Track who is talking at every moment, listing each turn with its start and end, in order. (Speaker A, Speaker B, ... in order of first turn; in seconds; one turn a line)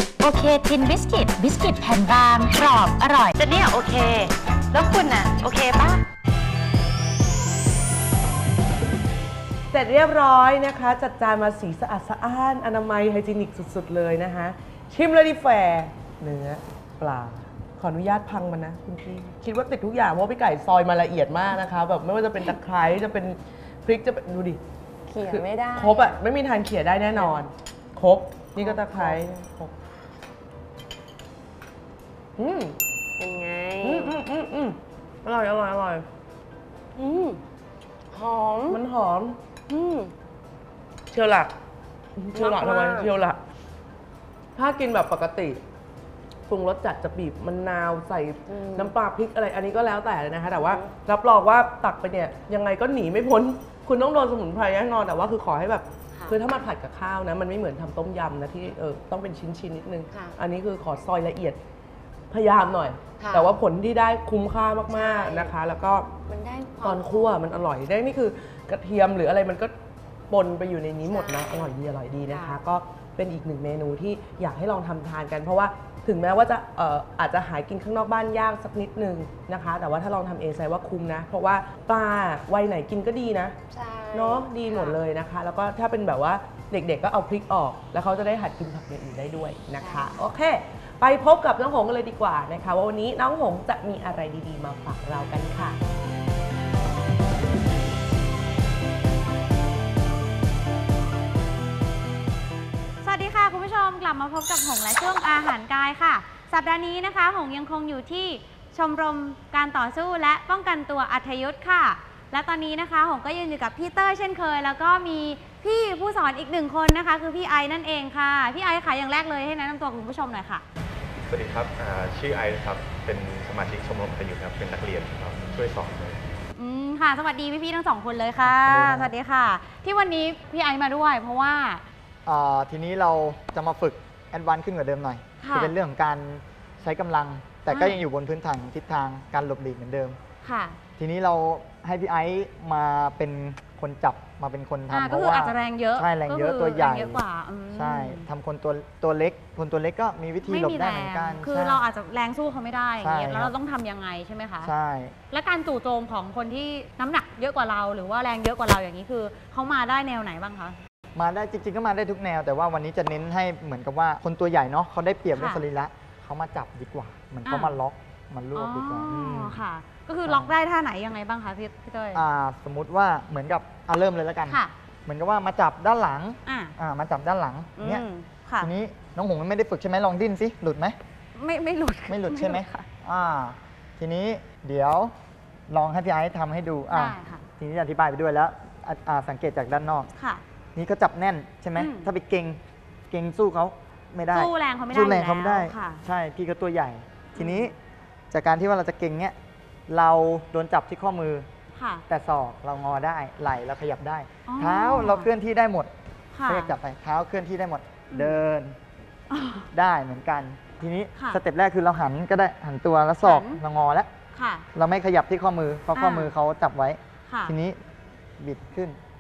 Speaker A: 0.2-6.0
Speaker B: 9.7-24.6
Speaker C: 25.1-26.2
Speaker B: 25.2-29.7
Speaker C: 27.2-27.4
Speaker C: 28.6-29.2
Speaker B: 32.4-32.8
Speaker C: 33.2-34.2
Speaker B: 33.8-36.1
Speaker C: 37.0-37.4
Speaker C: 38.1-38.8
Speaker B: 38.6-39.4
Speaker C: 39.7-40.1
Speaker B: 41.1-41.5
Speaker B: 42.2-43.4
Speaker C: 42.3-43.1
Speaker B: 44.5-45.6
Speaker B: 46.5-61.6
Speaker C: 48.5-48.9
Speaker C: 50.6-50.9
Speaker C: 56.1-56.4
Speaker C: 60.1-60.4
Speaker B: 62.3-66.1
Speaker C: 63.2-63.6
Speaker C: 64.9-65.6
Speaker C: 66.2-67.3
Speaker B: 66.8-69.7
Speaker B: 70.3-83.6
Speaker C: 71.0-71.8
Speaker C: 72.3-72.6
Speaker C: 83.7-85.0
Speaker B: 84.1-95.8
Speaker C: 89.8-90.1
Speaker D: 103.0-120.6
Speaker E: 121.3-126.2
Speaker D: 126.5-131.8
Speaker F: 128.4-129.1
Speaker F: 132.3-140.2
Speaker D: 135.4-135.8
Speaker D: 137.7-138.0
Speaker D: 140.4-140.8
Speaker F: 141.0-151.8
Speaker D: 144.9-148.3
Speaker D: 150.4-154.7
Speaker F: 153.0-153.5
Speaker F: 154.6-155.2
Speaker D: 155.3-160.8
Speaker F: 161.2-169.7
Speaker D: 165.3-165.6
Speaker D: 167.4-167.8
Speaker D: 168.5-172.2
Speaker F: 170.2-170.5
Speaker F: 172.1-178.1
Speaker D: 174.5-174.7
Speaker D: 176.5-176.7
Speaker D: 177.8-178.7
Speaker F: 178.6-181.0
Speaker D: 181.3-182.9
Speaker F: 182.1-185.1
Speaker F: 185.7-190.1
Speaker D: 186.9-187.4
Speaker D: 190.2-190.4
Speaker F: 190.8-197.7
Speaker D: 191.8-192.1
Speaker D: 194.3-196.0
Speaker D: 197.4-197.7
Speaker F: 198.3-199.3
Speaker F: 199.9-201.5
Speaker D: 201.7-202.0
Speaker F: 202.1-205.9
Speaker D: 204.5-205.3
Speaker D: 206.3-206.7
Speaker F: 206.5-208.8
Speaker D: 208.1-208.4
Speaker D: 209.3-209.7
Speaker F: 209.7-214.1
Speaker D: 211.2-211.4
Speaker D: 213.2-213.6
Speaker D: 214.3-214.7
Speaker F: 214.8-217.8
Speaker D: 215.9-216.3
Speaker D: 217.2-217.6
Speaker F: 218.4-219.0